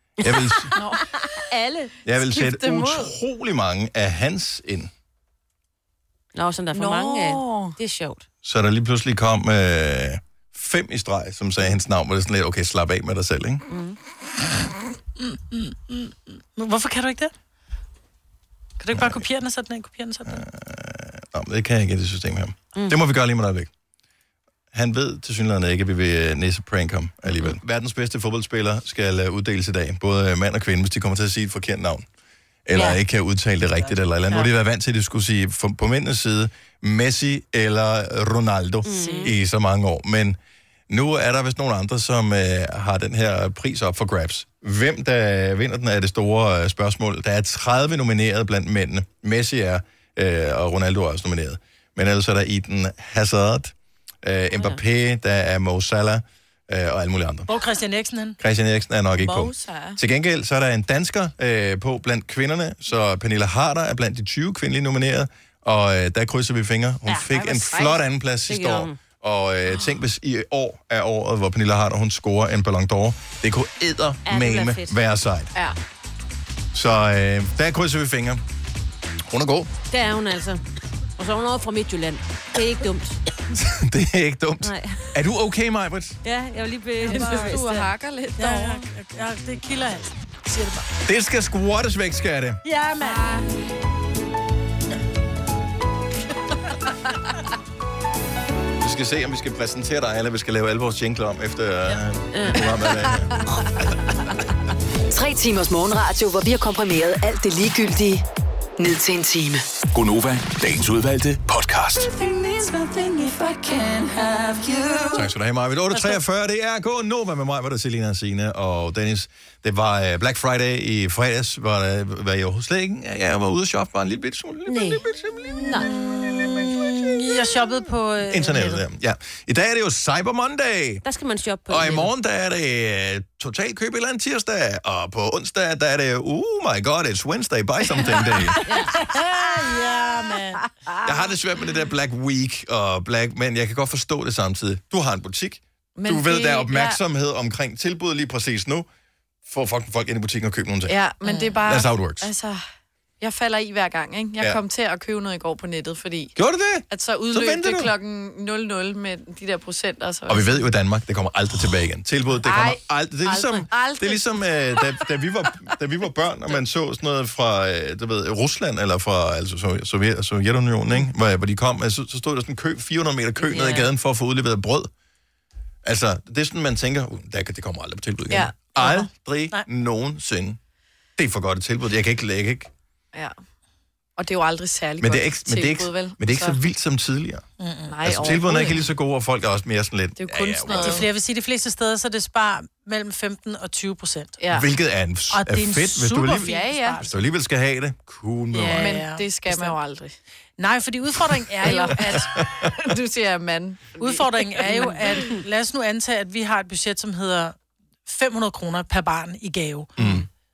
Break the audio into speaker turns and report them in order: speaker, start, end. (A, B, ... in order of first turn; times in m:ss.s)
0:00.2-0:00.7 A
0:00.2-0:02.0 B
0:00.8-0:01.1 C
0:02.0-0:04.9 A
0:02.2-0:03.1 C
0:06.4-0:08.3 B
0:06.7-0:07.8 C
0:08.4-0:13.6 A
0:13.7-0:14.0 B
0:15.2-0:17.3 D
0:18.8-0:20.4 D
0:18.9-0:19.2 A
0:20.3-0:23.7 A
0:22.8-0:23.0 B
0:24.7-0:32.0 A
0:32.7-0:40.4 A
0:32.7-0:33.0 D
0:33.8-0:34.5 D
0:38.8-0:39.3 B
0:38.9-0:39.3 D
0:40.9-0:57.5 A
0:57.5-0:58.4 D
0:58.4-1:15.5 A
0:59.2-1:00.0 C
1:07.1-1:07.3 B
1:07.4-1:08.0 C
1:08.5-1:09.0 B
1:09.7-1:10.0 C
1:14.3-1:15.0 B
1:16.7-1:18.4 A
1:19.3-1:19.7 A
1:19.9-1:20.6 B
1:21.2-1:23.2 B
1:23.5-1:26.2 A
1:24.6-1:25.1 B
1:26.2-1:27.9 B
1:27.0-1:27.6 D
1:27.1-1:28.8 C
1:28.4-1:30.9 D
1:31.1-1:32.6 A
1:32.6-1:33.3 D
1:33.0-1:33.5 C
1:38.8-1:44.0 A
1:42.3-1:42.6 B
1:45.1-1:48.2 E
1:48.8-1:49.6 E
1:49.9-1:52.1 F
1:52.0-1:55.3 E
1:55.1-2:06.0 A
1:55.9-1:56.2 D
2:04.7-2:05.0 B
2:05.6-2:05.9 B
2:05.6-2:08.8 D
2:08.2-2:11.0 A
2:11.0-2:12.1 B
2:11.7-2:18.6 A
2:18.0-2:20.6 D
2:18.6-2:19.0 B
2:21.0-2:28.9 A
2:26.0-2:27.0 C
2:29.5-2:31.0 A
2:30.9-2:32.6 C
2:31.2-2:31.6 D
2:31.7-2:32.3 A
2:33.2-2:36.3 C
2:36.4-2:37.9 A
2:36.9-2:40.6 C
2:40.3-2:54.9 A
2:42.4-2:45.0 C
2:53.4-2:53.9 B
2:55.8-3:00.6 A
2:58.3-2:59.1 C
3:01.2-3:02.7 A
3:04.2-3:06.6 C
3:05.0-3:07.4 A
3:07.6-3:08.8 D
3:07.9-3:08.8 C
3:08.0-3:11.1 A
3:10.2-3:11.1 C
3:10.8-3:14.4 D
3:14.4-3:14.7 C
3:14.5-3:19.1 A
3:15.3-3:17.1 D
3:16.3-3:17.0 C
3:18.5-3:19.8 D
3:18.8-3:20.2 C
3:20.6-3:22.2 D
3:21.6-3:25.4 C
3:22.0-3:22.8 A
3:24.0-3:29.9 D
3:30.0-3:30.3 A